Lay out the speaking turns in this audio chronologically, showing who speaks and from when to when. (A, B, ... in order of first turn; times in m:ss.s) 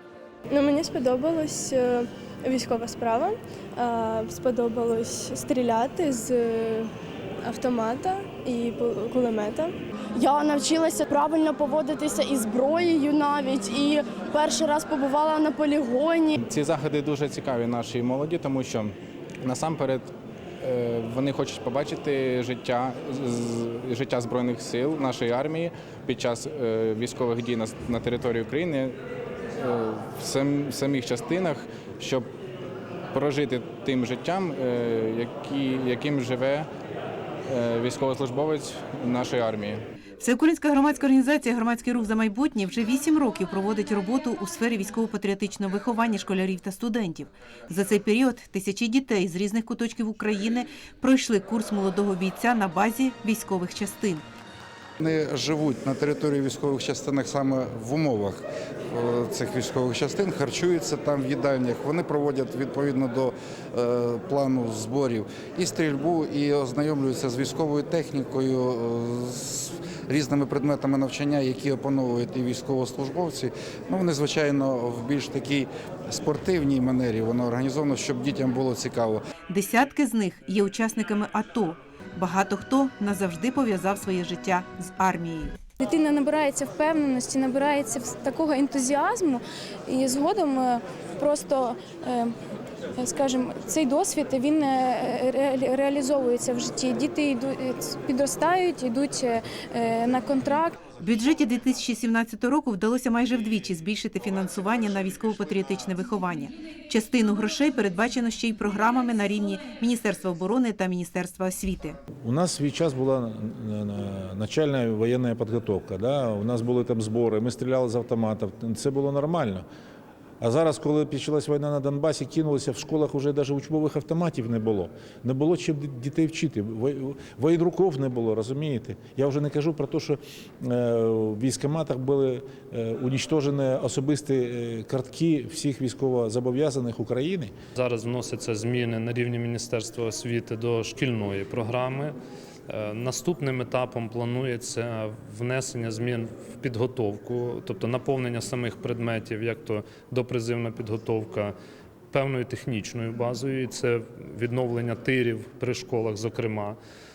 0:00.5-0:06.9 A
0:07.4-0:09.8 A
0:10.2-0:16.4 B
0:16.4-0:29.0 C
0:29.6-0:32.3 C
0:33.1-0:36.7 C
0:37.5-0:39.8 C
0:40.2-0:54.2 D
0:55.0-1:19.2 E
1:19.5-1:25.5 D
1:25.8-1:32.4 F
1:33.0-1:40.8 F
1:41.0-1:52.0 D
1:52.2-1:59.6 G
2:00.4-2:17.5 G
2:17.8-2:22.2 H
2:22.7-2:31.5 H
2:32.1-2:36.8 H